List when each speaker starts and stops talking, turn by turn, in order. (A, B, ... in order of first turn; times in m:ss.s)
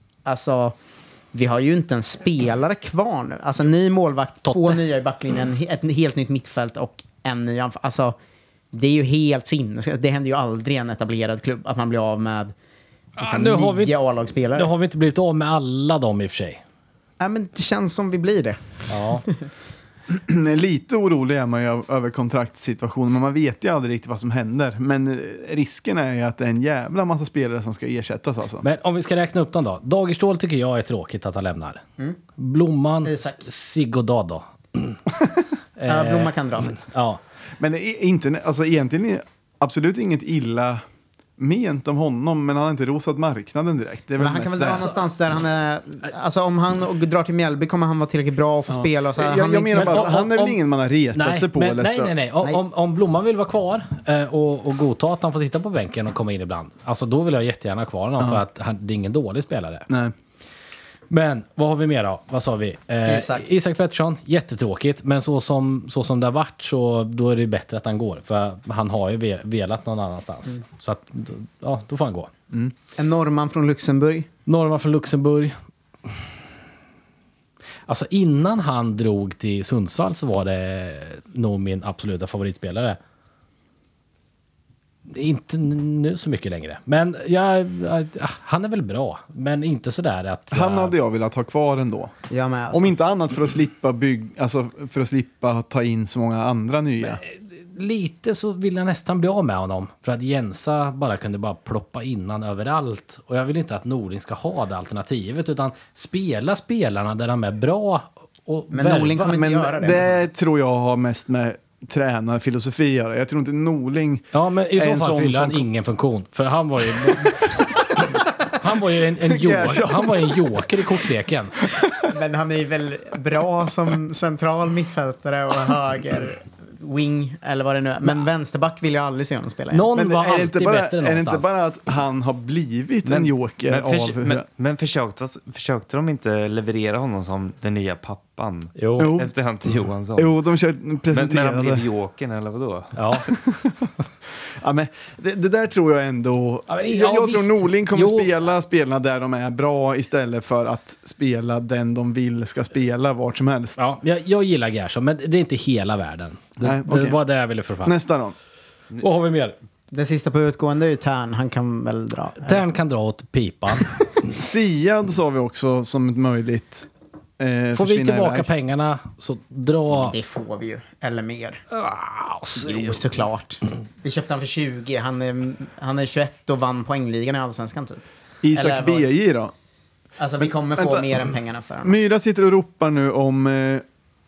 0:00.2-0:00.8 A
0:01.3-0:08.2 A
0:04.5-0:04.8 B
0:08.7-0:12.5 A
0:13.2-0:14.0 B
0:13.2-0:14.7 A
0:14.6-0:16.6 B
0:17.2-0:19.3 A
0:18.9-0:19.2 B
0:20.1-0:28.6 C
0:28.6-0:31.8 B
0:32.4-0:35.0 B
0:33.0-0:33.4 A
0:35.8-0:37.2 B
0:35.9-0:36.9 A
0:37.6-0:40.8 C
0:41.4-0:44.9 C
0:44.2-0:50.0 A
0:48.7-0:52.1 C
0:49.7-0:50.6 B
0:51.1-0:59.9 B
0:59.9-1:00.1 C
1:01.1-1:12.3 B
1:03.0-1:03.5 A
1:13.0-1:14.3 A
1:14.4-1:16.3 B
1:17.9-1:23.0 B
1:25.1-1:30.9 B
1:30.5-1:32.1 C
1:32.3-1:32.9 A
1:32.7-1:37.2 C
1:37.0-1:49.4 B
1:48.7-1:50.1 A
1:49.2-1:55.6 C
1:54.3-2:01.6 B
1:59.2-2:01.1 C
2:02.1-2:09.8 A
2:09.7-2:11.5 B
2:09.9-2:14.4 C
2:13.7-2:20.3 D
2:18.8-2:19.1 B
2:19.0-2:19.3 C
2:20.2-2:21.8 C
2:21.1-2:23.0 D
2:22.9-2:23.3 B
2:23.3-2:33.9 C
2:26.7-2:28.3 B
2:33.8-2:38.0 B
2:36.6-2:37.2 C
2:37.8-2:38.3 C
2:39.0-2:39.6 B
2:39.9-2:42.6 A
2:42.4-2:44.3 B
2:44.3-2:46.9 C
2:47.4-2:48.5 C
2:47.7-2:50.2 B
2:50.0-2:51.6 A
2:51.7-2:53.0 B
2:52.5-2:59.1 A
2:58.4-2:59.5 C
3:00.2-3:02.0 A
3:00.4-3:01.1 C
3:01.8-3:03.8 C